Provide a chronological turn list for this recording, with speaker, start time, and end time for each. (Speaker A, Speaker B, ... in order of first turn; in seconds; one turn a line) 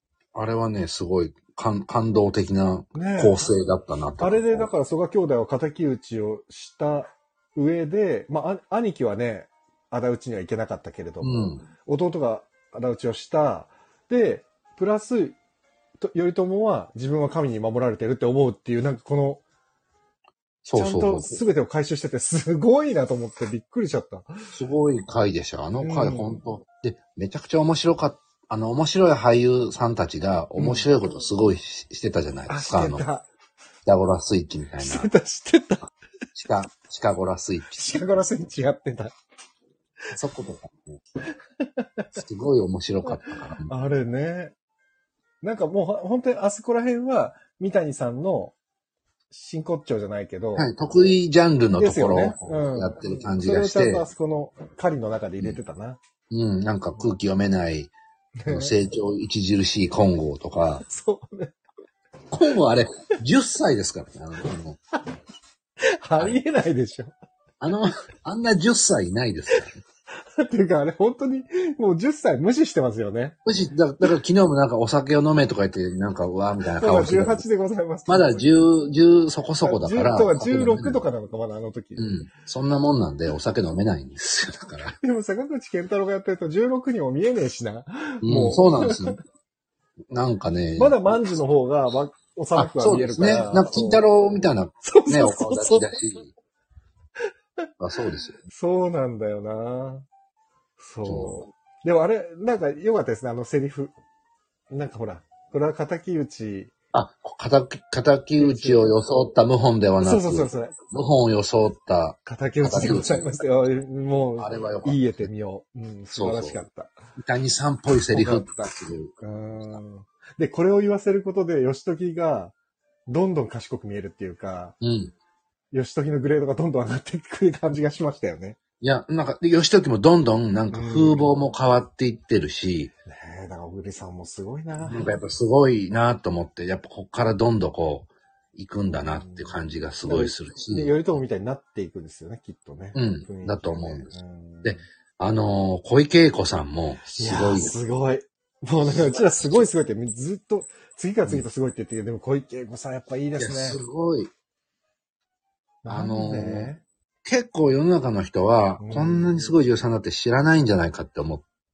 Speaker A: 0.3-4.7
Speaker B: 2.9-3.5
Speaker B: 4.2-15.4
Speaker A: 11.2-11.6
Speaker B: 16.0-19.4
Speaker B: 20.7-24.5
Speaker A: 20.7-21.4
Speaker A: 24.5-33.0
Speaker B: 25.8-26.4
Speaker B: 30.6-30.9
Speaker B: 32.5-33.3
Speaker A: 33.9-35.1
Speaker B: 34.8-35.9
Speaker A: 36.4-38.0
Speaker B: 37.8-39.1
Speaker A: 40.1-41.0
Speaker B: 41.6-42.1
Speaker A: 42.1-43.7
Speaker B: 43.2-44.5
Speaker B: 45.4-48.5
Speaker B: 49.3-50.7
Speaker A: 50.6-54.1
Speaker B: 51.8-56.0
Speaker A: 56.3-57.9
Speaker B: 58.4-58.8
Speaker A: 58.5-60.8
Speaker B: 60.8-61.5
Speaker A: 62.3-64.8
Speaker B: 66.0-67.1
Speaker A: 67.6-69.8
Speaker B: 70.4-73.4
Speaker A: 73.5-77.4
Speaker B: 76.7-78.5
Speaker A: 78.1-81.0
Speaker B: 79.6-82.1
Speaker A: 82.0-85.0
Speaker B: 85.0-89.2
Speaker A: 88.2-89.2
Speaker A: 90.1-91.2
Speaker B: 90.8-94.0
Speaker A: 92.6-96.3
Speaker B: 94.8-95.9
Speaker A: 97.8-98.4
Speaker B: 98.5-100.1
Speaker B: 100.8-103.9
Speaker A: 101.0-101.4
Speaker B: 104.7-106.7
Speaker A: 106.9-113.3
Speaker B: 108.4-108.9
Speaker B: 110.0-110.8
Speaker B: 112.3-116.9
Speaker A: 114.4-115.2
Speaker A: 116.2-116.6
Speaker A: 117.2-119.1
Speaker B: 118.1-118.7
Speaker B: 119.2-122.5
Speaker B: 123.1-124.8
Speaker A: 124.8-125.1
Speaker B: 125.7-128.6
Speaker A: 128.8-132.9
Speaker B: 130.7-131.3
Speaker B: 133.1-135.1
Speaker A: 134.8-141.0
Speaker B: 139.2-144.8
Speaker A: 142.9-144.1
Speaker A: 144.6-147.8
Speaker B: 147.1-153.8
Speaker A: 148.9-149.7
Speaker A: 153.4-154.3
Speaker B: 155.8-156.8
Speaker A: 155.9-156.7
Speaker A: 157.2-161.4
Speaker B: 158.8-159.5